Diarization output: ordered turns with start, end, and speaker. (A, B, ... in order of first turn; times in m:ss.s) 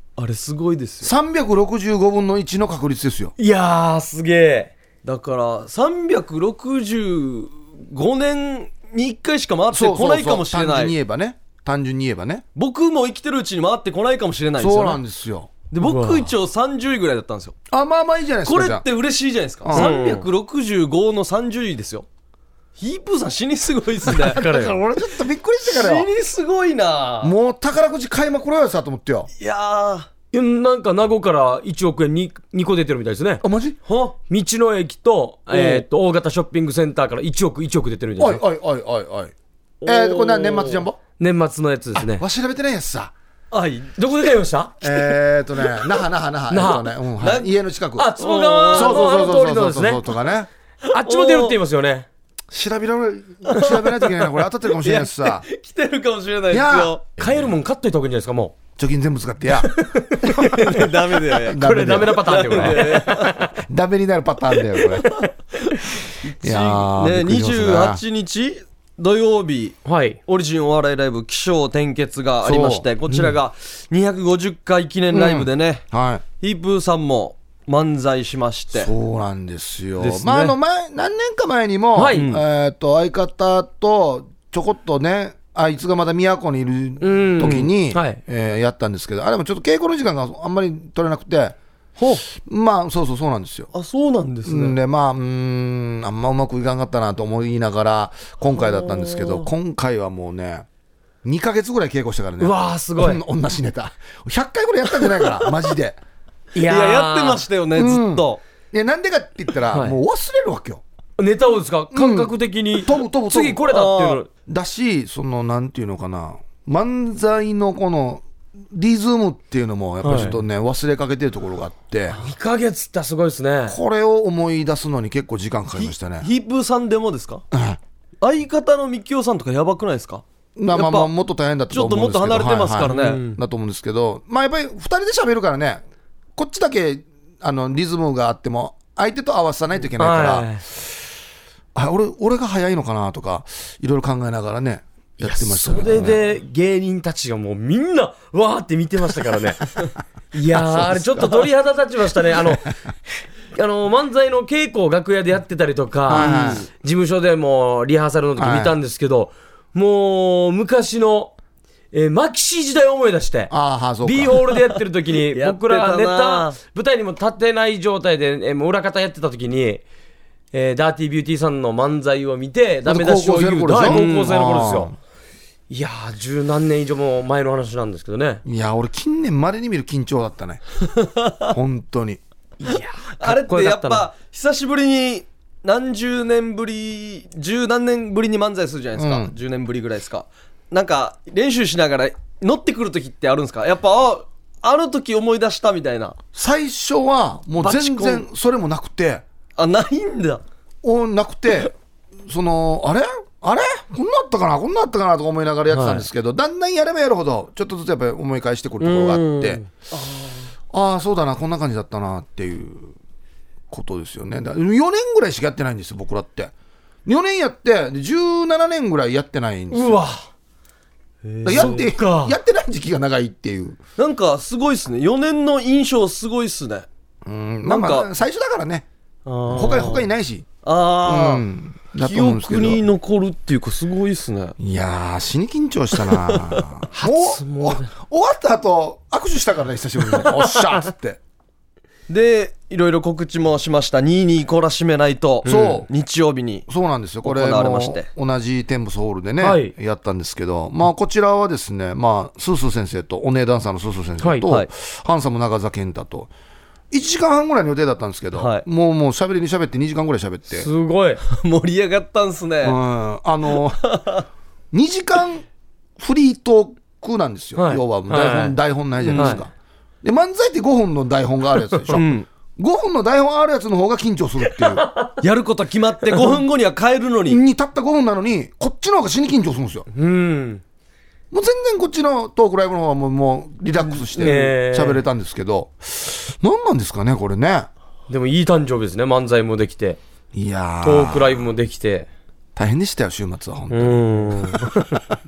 0:00.2-0:01.1 A
0:01.0-0:03.3 B
0:03.4-0:04.7 C
0:05.0-0:11.0 A
0:09.7-0:12.4 B
0:12.6-0:15.0 A
0:14.6-0:15.5 B
0:15.7-0:17.6 A
0:15.8-0:16.3 C
0:17.7-0:18.8 B
0:18.4-0:22.1 A
0:19.6-0:20.0 B
0:19.7-0:20.3 C
0:22.8-0:24.4 A
0:24.1-0:26.1 B
0:24.1-0:24.8 C
0:25.7-0:27.4 A
0:27.2-0:29.3 B
0:29.4-0:30.1 A
0:30.3-0:33.4 C
0:33.4-0:33.8 B
0:33.8-0:34.2 A
0:34.3-0:38.4 C
0:35.5-0:35.8 A
0:38.2-0:39.3 B
0:39.8-0:42.2 C
0:39.8-0:41.0 B
0:42.0-0:43.1 B
0:43.5-0:44.0 A
0:44.0-0:45.0 C
0:44.8-0:48.1 B
0:46.5-0:46.9 C
0:47.2-0:47.5 A
0:48.0-0:50.0 C
0:48.2-0:49.2 A
0:48.7-0:50.5 B
0:50.9-0:51.6 A
0:50.9-0:52.1 C
0:52.5-0:55.4 B
0:53.5-0:57.0 A
0:56.5-0:57.5 B
0:57.2-0:58.6 C
0:58.8-0:59.8 B
0:59.6-1:00.5 C
1:00.2-1:03.4 A
1:01.5-1:02.9 B
1:01.5-1:03.5 C
1:03.6-1:05.1 B
1:04.8-1:15.8 A
1:06.4-1:08.0 B
1:09.8-1:10.2 C
1:12.4-1:12.9 B
1:13.1-1:13.4 C
1:15.1-1:16.2 B
1:16.4-1:18.9 A
1:18.8-1:31.6 B
1:20.0-1:20.6 A
1:22.0-1:22.3 C
1:22.1-1:22.4 A
1:27.0-1:28.2 C
1:32.3-1:33.7 B
1:33.7-1:34.8 A
1:34.4-1:40.7 B
1:38.6-1:39.5 A
1:41.2-1:46.0 B
1:42.4-1:43.2 C
1:46.5-1:47.4 C
1:46.6-1:48.4 A
1:47.8-1:50.8 B
1:49.7-1:50.0 C
1:51.2-1:54.3 C
1:51.9-1:53.6 B
1:53.7-1:54.2 A
1:54.5-2:02.2 B
2:00.0-2:00.4 C
2:02.1-2:03.8 C
2:03.7-2:06.3 B
2:05.8-2:07.4 A
2:07.5-2:07.8 B
2:08.2-2:11.1 A
2:10.6-2:15.8 B
2:11.7-2:13.2 A
2:12.9-2:13.4 C
2:16.4-2:21.0 B
2:20.0-2:20.6 C
2:21.8-2:26.2 B
2:25.2-2:29.8 C
2:30.3-2:32.8 C
2:33.5-2:41.3 C
2:36.1-2:36.6 B
2:36.1-2:36.6 A
2:38.4-2:38.7 B
2:41.9-2:49.8 C
2:43.5-2:44.4 B
2:44.5-2:46.6 A
2:50.5-2:54.9 C
2:52.8-2:54.9 B
2:53.7-2:54.3 A
2:55.7-2:58.4 C
2:58.4-3:00.6 B
3:00.9-3:01.5 A
3:01.5-3:02.2 B
3:02.6-3:04.0 C
3:02.7-3:16.2 A
3:09.0-3:09.3 B
3:16.3-3:19.2 B
3:17.6-3:18.3 A
3:19.6-3:20.4 A
3:20.8-3:21.7 B
3:22.3-3:29.6 B
3:25.7-3:26.1 C
3:28.8-3:29.7 C
3:29.9-3:30.5 A
3:30.7-3:32.9 B
3:33.7-3:36.5 B
3:37.0-3:40.0 B
3:39.7-3:40.2 C
3:41.2-3:41.9 A
3:41.4-3:43.8 B
3:41.6-3:42.4 C
3:44.0-3:46.9 A
3:47.2-3:48.9 B
3:47.7-3:48.1 A
3:49.3-3:50.1 A
3:49.5-3:50.5 B
3:50.6-3:51.4 A
3:51.0-3:52.9 B
3:52.0-3:54.6 A
3:54.6-4:01.2 B
3:56.1-3:56.6 A
3:56.9-3:57.9 C
4:02.1-4:06.7 A
4:05.4-4:05.9 B
4:05.5-4:05.8 C
4:06.7-4:16.3 B
4:07.2-4:08.1 A
4:09.4-4:09.7 C
4:14.2-4:14.5 C
4:16.9-4:20.7 B
4:18.3-4:18.6 A
4:20.5-4:21.2 C
4:21.2-4:22.8 A
4:22.6-4:23.8 B
4:23.8-4:24.3 A
4:24.7-4:25.4 B
4:26.0-4:29.5 B
4:27.6-4:28.6 C
4:29.0-4:29.4 A
4:30.0-4:32.1 B
4:31.9-4:32.3 A
4:32.6-4:34.8 B
4:34.5-4:35.1 C
4:35.2-4:37.4 A
4:37.3-4:39.9 B
4:39.9-4:40.6 C
4:41.3-4:47.7 B
4:43.8-4:44.4 A
4:44.2-4:45.0 C
4:48.1-4:50.0 C
4:50.3-4:51.5 B
4:50.8-4:52.1 C
4:52.6-4:54.7 B
4:53.7-4:55.0 C